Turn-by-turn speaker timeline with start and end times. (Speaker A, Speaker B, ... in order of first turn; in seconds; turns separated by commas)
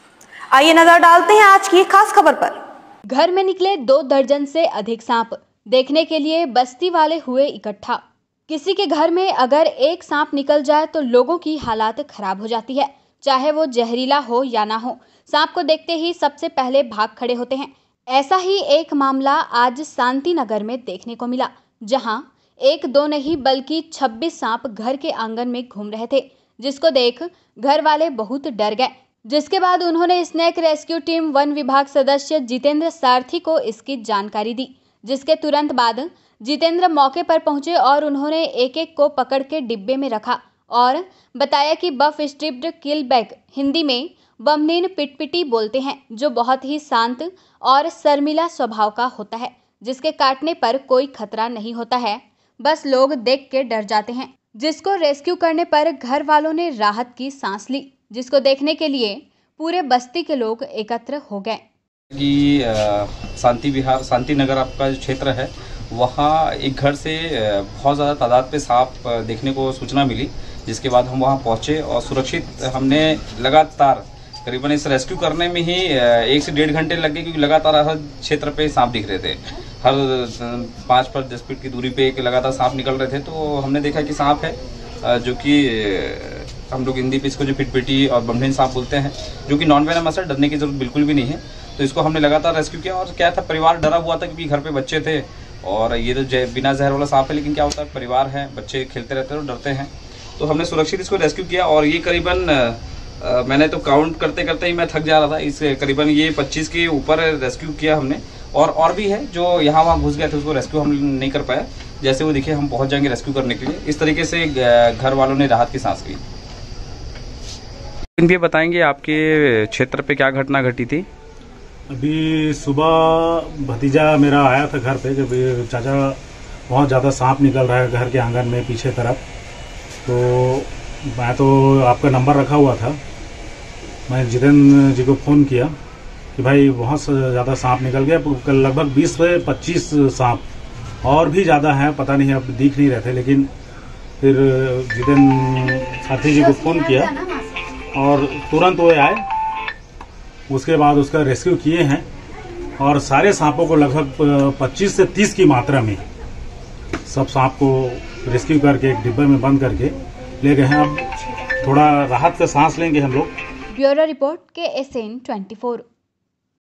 Speaker A: 0.5-2.6, Speaker B: 3.1-61.6, Speaker C: 62.1-116.2, Speaker C: 118.2-121.1, Speaker D: 121.9-129.2, Speaker D: 130.0-133.0, Speaker D: 134.1-135.7, Speaker D: 136.3-140.4, Speaker D: 141.0-143.5, Speaker D: 144.2-147.1, Speaker B: 146.3-147.6, Speaker D: 147.9-149.2, Speaker D: 150.5-152.1, Speaker D: 152.8-156.0, Speaker D: 157.1-161.1, Speaker D: 161.6-163.3, Speaker B: 163.7-165.8